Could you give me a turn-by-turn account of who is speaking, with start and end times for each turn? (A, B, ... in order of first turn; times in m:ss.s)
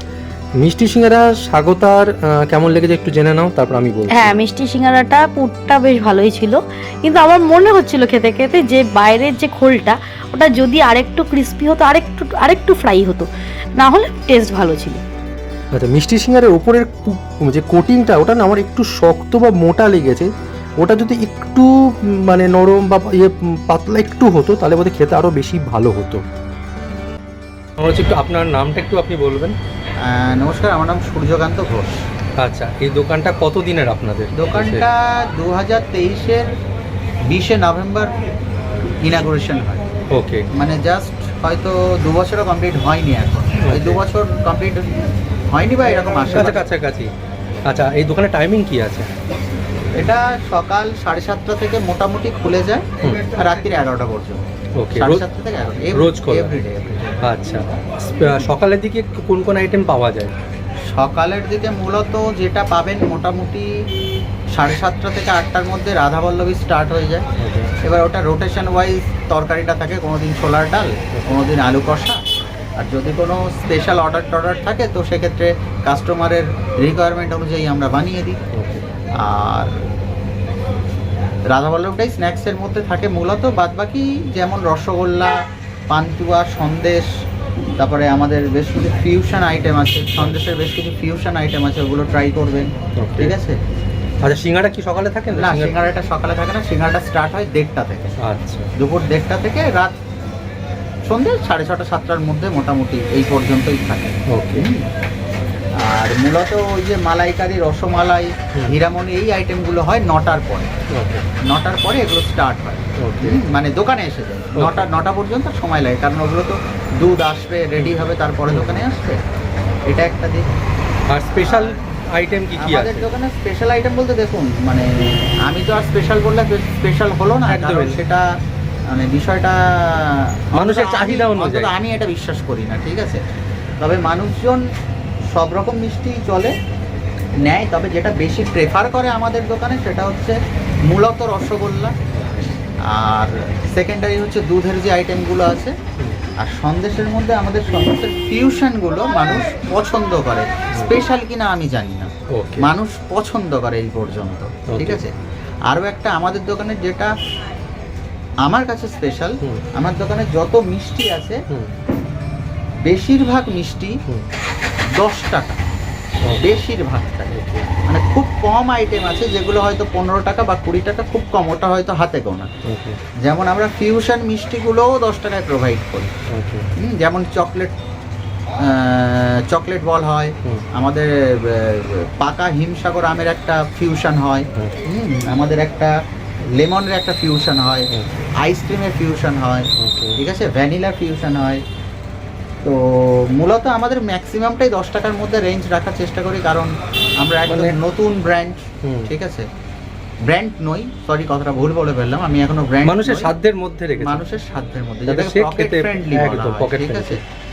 0:00.6-0:04.4 A
0:04.1-0:15.0 B
0:15.7-0:26.2 A
0:27.8-0:29.5 A
0:30.0-0:32.0 C
0:32.4-0:34.8 A
0:34.3-0:36.5 C
0:37.3-0:38.1 C
0:39.0-0:39.8 C
0:40.1-0:40.4 A
0:40.5-0:44.9 C
0:45.5-0:46.7 C
0:46.3-0:47.1 A
0:47.7-0:49.1 A
0:49.9-0:54.4 C
0:54.8-0:55.2 A
0:54.9-0:57.2 C
0:56.0-0:56.5 A
0:57.2-1:00.3 A
1:00.9-1:03.7 C
1:04.5-1:07.2 C
1:07.4-1:07.7 A
1:07.8-1:12.2 C
1:12.8-1:18.4 C
1:18.5-1:18.8 A
1:19.2-1:19.8 C
1:21.5-1:27.1 C
1:27.8-1:33.6 C
1:33.0-1:33.3 A
1:34.2-1:35.7 A
1:35.3-1:38.1 C
1:38.2-1:38.7 A
1:38.8-1:40.0 C
1:41.0-1:44.8 C
1:44.3-1:44.6 A
1:45.8-1:50.7 C
1:50.9-1:51.2 A
1:51.4-1:59.2 C
1:53.0-1:53.4 A
1:59.9-2:00.5 C
2:01.1-2:03.0 A
2:01.4-2:01.8 C
2:02.5-2:08.2 C
2:07.5-2:07.9 A
2:08.9-2:13.2 C
2:10.6-2:11.6 A
2:13.8-2:14.6 C
2:15.3-2:16.5 C
2:17.4-2:20.4 C
2:20.9-2:21.9 C
2:22.9-2:25.7 C
2:26.4-2:35.1 C
2:32.4-2:32.6 A
2:35.7-2:37.1 C
2:38.4-2:41.4 C
2:42.8-2:44.0 C
2:45.0-2:45.6 C
2:46.4-2:47.4 C
2:47.3-2:47.6 A
2:47.9-2:52.5 C
2:52.7-2:53.0 A
2:53.2-2:56.1 C
2:56.3-2:56.6 A
2:56.8-2:57.7 C
2:58.6-3:05.9 C
3:06.6-3:11.6 C
3:09.8-3:10.1 A
3:12.6-3:19.5 C
3:20.2-3:23.3 C
3:22.9-3:24.2 A
3:24.0-3:27.2 C
3:25.1-3:27.2 A